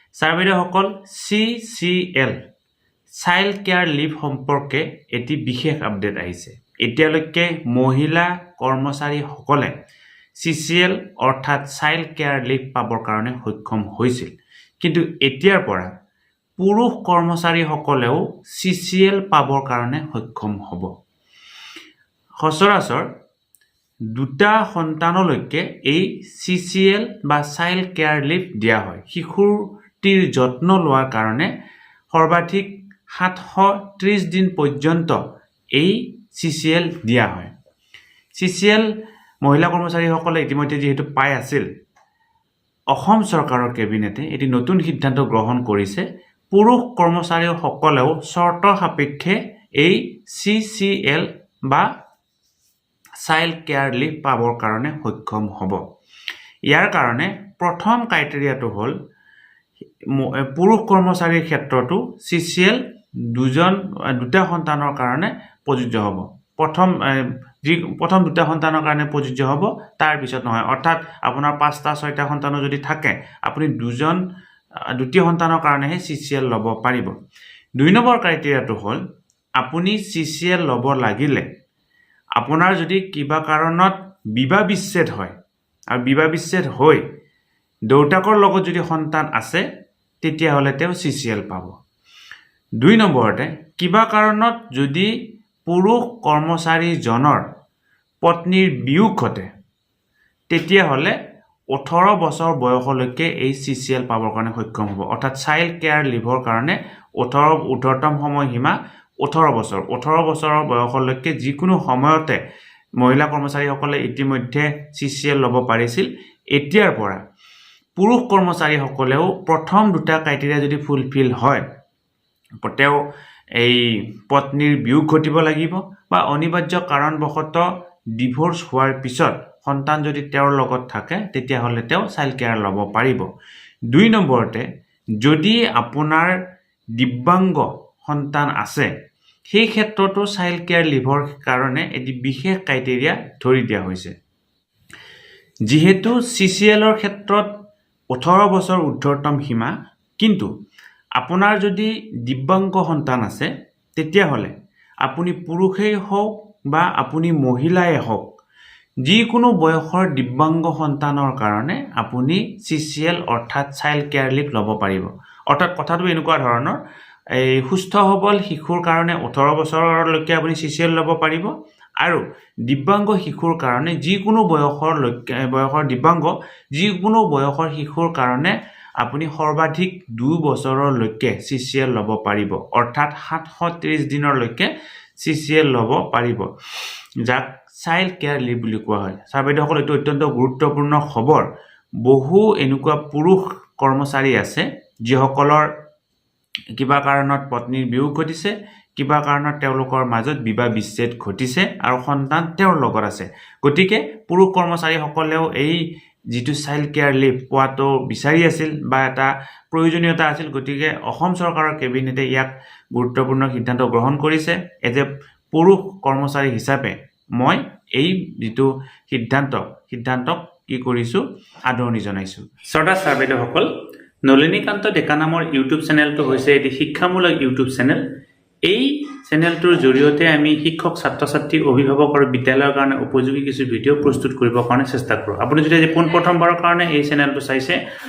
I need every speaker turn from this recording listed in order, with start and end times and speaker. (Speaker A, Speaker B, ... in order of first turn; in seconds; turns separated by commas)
Speaker A: 0.2-2.4, Speaker A: 3.2-9.7, Speaker A: 10.4-15.9, Speaker A: 16.6-20.9, Speaker A: 22.4-23.1, Speaker A: 24.1-31.5, Speaker A: 32.1-35.2, Speaker A: 35.7-37.5, Speaker A: 38.4-38.9, Speaker A: 39.4-41.6, Speaker A: 42.9-51.9, Speaker A: 53.2-55.8, Speaker A: 56.7-59.0, Speaker A: 60.1-62.8, Speaker A: 63.3-74.2, Speaker A: 74.9-77.1, Speaker A: 77.8-79.0, Speaker A: 79.6-81.5, Speaker A: 82.4-85.3, Speaker A: 85.9-87.0, Speaker A: 87.9-89.6, Speaker A: 90.2-91.7, Speaker A: 92.8-95.1, Speaker A: 95.7-97.4, Speaker A: 98.2-99.5, Speaker A: 100.5-101.1, Speaker A: 101.7-112.4, Speaker A: 113.0-117.2, Speaker A: 118.0-121.6, Speaker A: 122.6-123.0, Speaker A: 123.6-127.6, Speaker A: 128.2-133.2, Speaker A: 133.9-134.6, Speaker A: 135.2-136.3, Speaker A: 136.9-138.9, Speaker A: 139.5-144.1, Speaker A: 145.7-147.5, Speaker A: 148.1-150.5, Speaker A: 151.2-154.5, Speaker A: 155.0-158.2, Speaker A: 159.0-166.8, Speaker A: 167.4-186.5, Speaker A: 187.2-191.4, Speaker A: 192.0-195.7, Speaker A: 196.8-205.8, Speaker A: 206.3-223.7, Speaker A: 224.2-228.0, Speaker A: 228.6-237.8